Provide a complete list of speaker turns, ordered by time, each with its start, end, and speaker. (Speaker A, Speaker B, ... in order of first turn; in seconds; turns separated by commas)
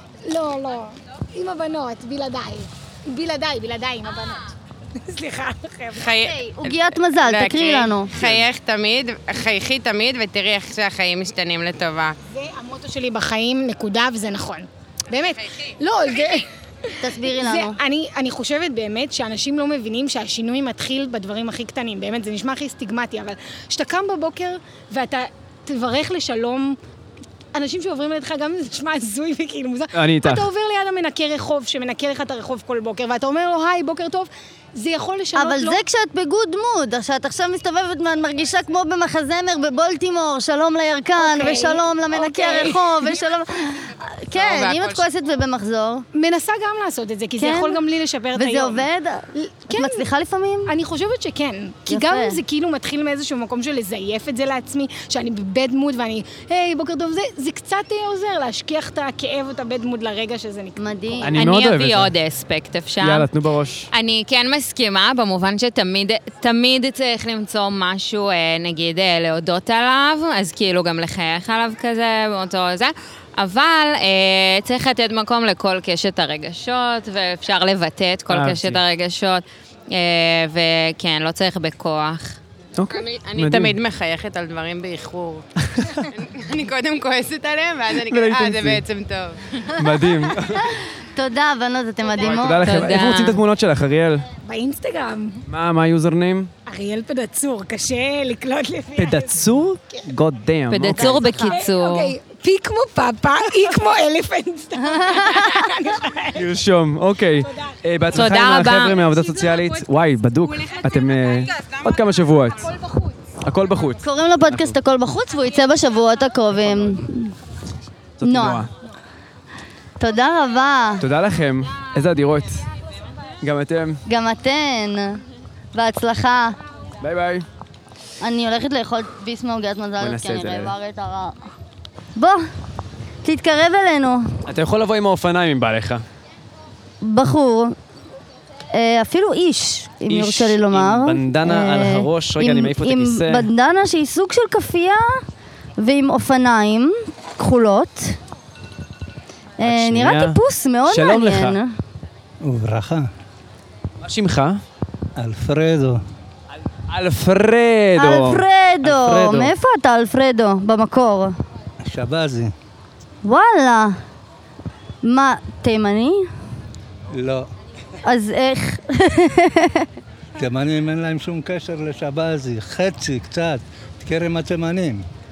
Speaker A: 0.2-6.1, Speaker B: 5.9-12.1, Speaker C: 6.2-8.1, Speaker A: 12.3-16.5, Speaker C: 17.0-17.8, Speaker A: 17.2-26.8, Speaker A: 27.5-35.8, Speaker D: 29.9-30.5, Speaker C: 35.3-46.0, Speaker A: 41.2-43.2, Speaker B: 44.4-45.0, Speaker A: 46.1-50.1, Speaker C: 47.4-47.8, Speaker C: 48.3-50.7, Speaker A: 50.7-61.2, Speaker C: 51.9-52.4, Speaker C: 60.8-61.4, Speaker D: 61.2-62.1, Speaker E: 61.3-63.3, Speaker D: 63.0-63.9, Speaker E: 63.9-82.4, Speaker D: 78.3-78.8, Speaker D: 82.7-83.8, Speaker B: 82.9-85.5, Speaker D: 85.6-85.9, Speaker B: 86.1-89.4, Speaker D: 88.0-88.8, Speaker D: 89.8-90.7, Speaker C: 91.2-92.9, Speaker D: 92.2-94.2, Speaker E: 92.6-93.4, Speaker A: 94.4-95.4, Speaker D: 95.5-96.5, Speaker A: 96.7-100.0, Speaker D: 99.0-101.2, Speaker E: 100.7-102.1, Speaker C: 101.0-101.6, Speaker A: 101.5-106.5, Speaker C: 104.9-105.6, Speaker D: 106.3-112.7, Speaker A: 107.4-107.8, Speaker E: 108.1-109.0, Speaker A: 112.6-113.2, Speaker D: 113.4-114.7, Speaker C: 114.0-117.3, Speaker D: 116.6-116.9, Speaker D: 118.2-118.7, Speaker C: 118.2-118.7, Speaker C: 120.0-121.0, Speaker D: 121.0-122.6, Speaker D: 123.4-124.0, Speaker C: 124.1-125.2, Speaker C: 125.7-126.5, Speaker D: 127.0-127.4, Speaker C: 128.2-131.4, Speaker D: 130.0-130.7, Speaker C: 132.2-132.4, Speaker C: 133.2-134.3, Speaker D: 134.5-136.0, Speaker C: 137.0-137.8, Speaker C: 138.7-145.2, Speaker D: 140.1-143.5, Speaker C: 145.8-148.2, Speaker C: 149.6-151.7, Speaker D: 149.6-151.6, Speaker F: 152.4-153.1, Speaker D: 154.0-154.6, Speaker F: 155.2-156.0, Speaker D: 156.9-159.5, Speaker C: 157.9-161.3, Speaker F: 161.8-162.5, Speaker C: 163.2-163.9, Speaker C: 165.0-166.3, Speaker F: 167.1-167.4, Speaker C: 168.0-169.8, Speaker F: 170.4-175.0